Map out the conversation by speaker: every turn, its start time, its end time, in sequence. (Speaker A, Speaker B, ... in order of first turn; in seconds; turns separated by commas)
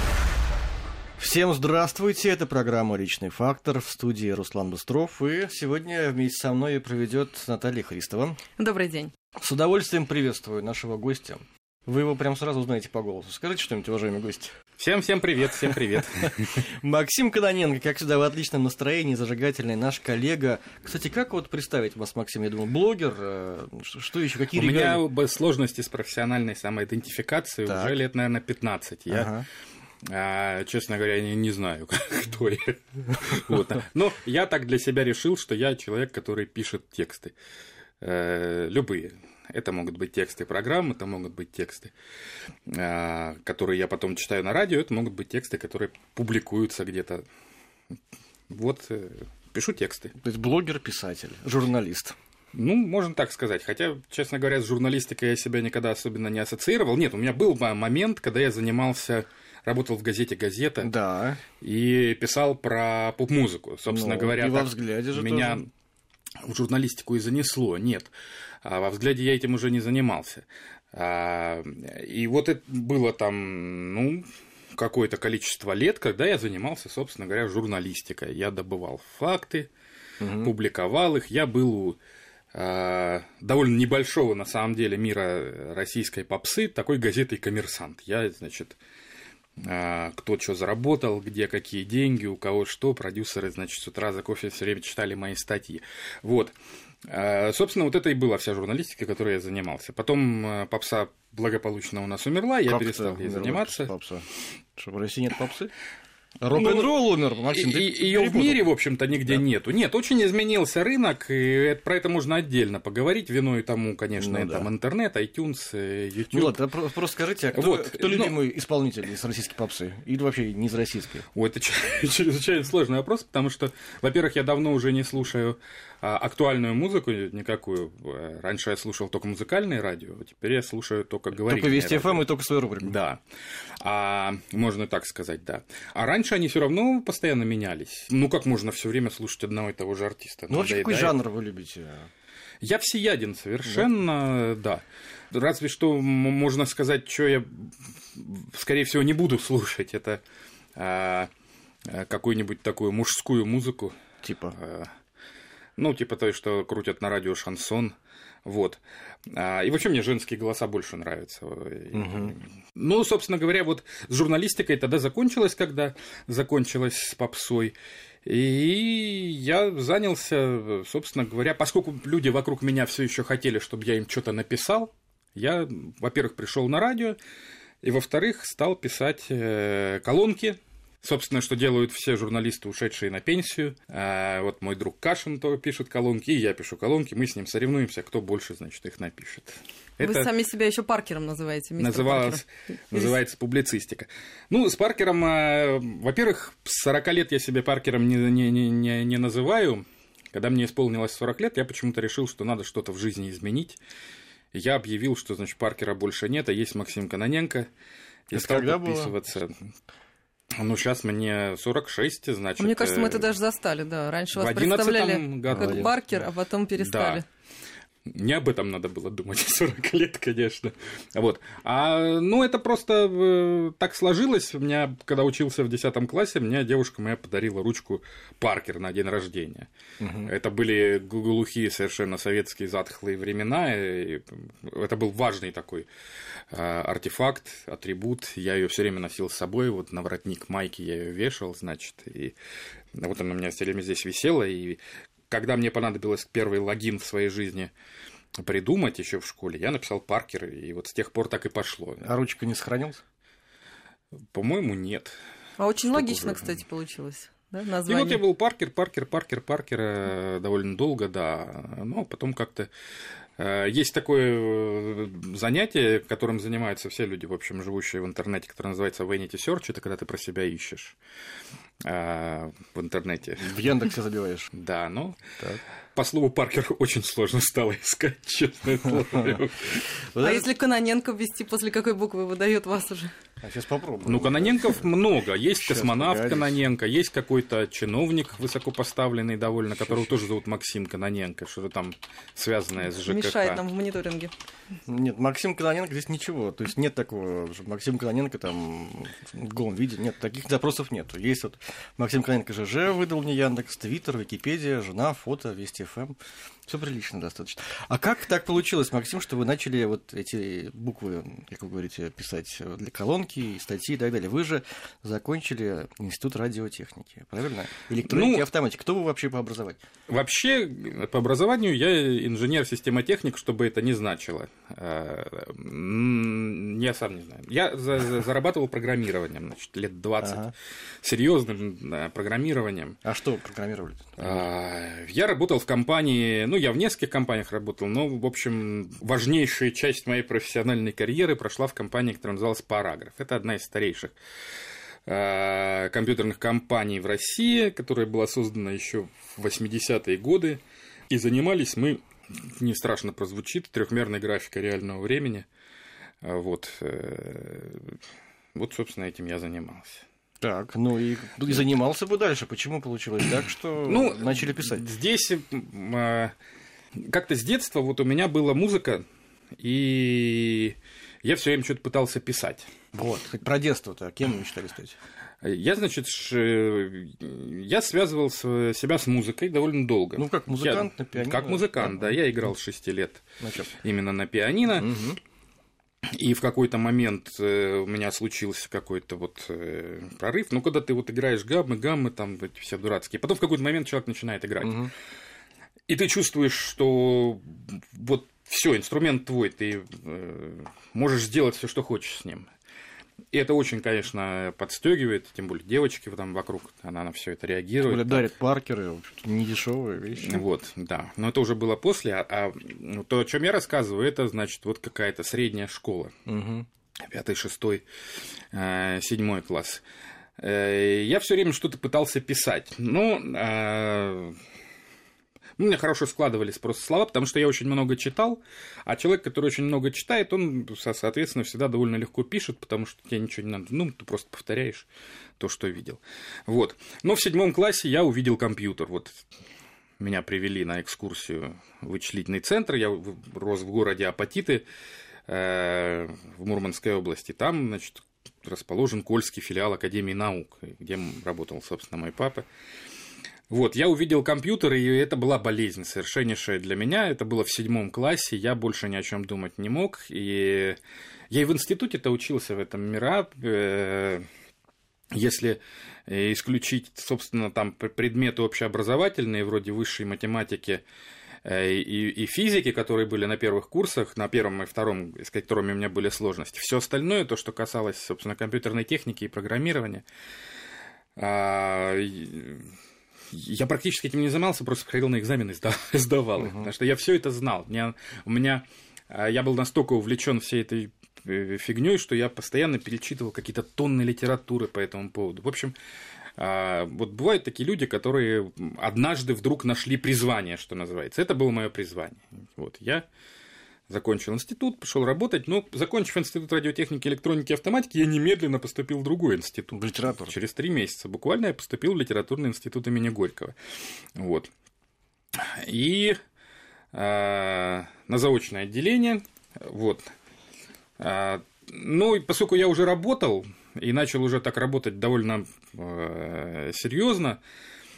Speaker A: 1.2-8.4, Speaker B: 8.6-9.1, Speaker A: 9.3-14.5, Speaker C: 14.8-16.7, Speaker A: 16.2-25.0, Speaker C: 24.5-29.3, Speaker A: 27.6-27.9, Speaker A: 29.1-29.4, Speaker C: 30.0-37.3, Speaker C: 38.0-41.9, Speaker C: 42.7-47.2, Speaker C: 48.5-50.1, Speaker A: 50.1-52.1, Speaker C: 52.5-60.9, Speaker A: 60.8-61.4, Speaker C: 61.6-65.7, Speaker A: 63.9-65.6, Speaker C: 66.4-68.1, Speaker C: 68.6-79.7, Speaker A: 80.2-80.5, Speaker C: 80.4-82.0, Speaker C: 82.5-88.8, Speaker C: 89.6-103.9, Speaker A: 102.7-105.7, Speaker A: 106.4-108.7, Speaker C: 106.5-116.6, Speaker A: 114.2-114.7, Speaker A: 116.3-121.3, Speaker C: 117.5-118.4, Speaker C: 121.3-132.3, Speaker A: 131.5-132.9, Speaker C: 132.8-133.2, Speaker C: 133.8-141.2, Speaker A: 140.5-142.1, Speaker C: 142.6-150.2, Speaker C: 150.8-151.3, Speaker C: 151.8-154.0, Speaker A: 154.2-154.6, Speaker C: 154.5-154.9, Speaker C: 155.8-177.2, Speaker A: 161.9-162.3, Speaker C: 177.8-190.3, Speaker B: 190.0-192.4, Speaker C: 191.8-203.8, Speaker C: 204.5-207.7, Speaker C: 208.3-209.7, Speaker A: 208.3-209.1, Speaker C: 210.5-213.3, Speaker B: 212.6-217.2, Speaker C: 214.3-216.0, Speaker A: 215.5-215.9, Speaker C: 216.8-217.2, Speaker C: 218.1-229.7, Speaker A: 230.0-230.3, Speaker C: 230.2-235.9, Speaker C: 236.5-242.3, Speaker C: 242.9-247.7, Speaker C: 248.4-252.1, Speaker A: 252.0-253.0, Speaker C: 254.3-255.2, Speaker B: 255.6-258.2, Speaker C: 255.8-256.4, Speaker C: 257.9-262.7, Speaker C: 263.4-271.0, Speaker C: 271.8-273.6, Speaker A: 273.4-274.5, Speaker C: 274.5-275.2, Speaker C: 275.9-279.9, Speaker A: 279.1-279.4, Speaker A: 280.0-280.5, Speaker B: 280.2-283.1, Speaker A: 283.4-284.8, Speaker C: 284.0-293.6, Speaker A: 285.6-286.6, Speaker B: 292.9-294.3, Speaker A: 294.9-306.1, Speaker A: 306.7-319.8, Speaker C: 318.0-318.4, Speaker C: 320.1-330.4, Speaker A: 330.2-330.5, Speaker C: 331.0-333.0, Speaker A: 333.0-334.4, Speaker C: 334.2-344.1, Speaker C: 345.1-355.5, Speaker C: 356.2-358.0, Speaker C: 358.5-360.0, Speaker A: 360.4-364.9, Speaker C: 363.8-366.3, Speaker C: 366.9-369.0, Speaker C: 369.6-372.7, Speaker A: 372.9-374.9, Speaker C: 375.4-385.0, Speaker A: 380.2-382.2, Speaker A: 383.4-383.7, Speaker A: 384.8-385.2, Speaker C: 386.1-394.9, Speaker A: 394.6-394.9, Speaker C: 395.9-402.5, Speaker C: 403.3-408.3, Speaker A: 407.8-410.4, Speaker C: 410.1-416.1, Speaker A: 416.2-416.7, Speaker C: 417.0-417.8, Speaker C: 418.5-419.8, Speaker C: 420.4-424.4, Speaker C: 425.6-434.9, Speaker C: 435.4-439.2, Speaker C: 440.0-444.6, Speaker C: 445.3-452.5, Speaker C: 453.5-460.8, Speaker C: 461.3-464.2, Speaker C: 465.1-470.8, Speaker C: 471.4-480.0, Speaker C: 481.2-482.7, Speaker C: 483.3-495.7, Speaker A: 486.4-486.7, Speaker C: 496.4-503.1, Speaker C: 503.9-513.6, Speaker A: 509.7-510.3, Speaker C: 514.1-514.5, Speaker C: 515.3-516.2, Speaker C: 516.9-520.1, Speaker C: 521.0-527.4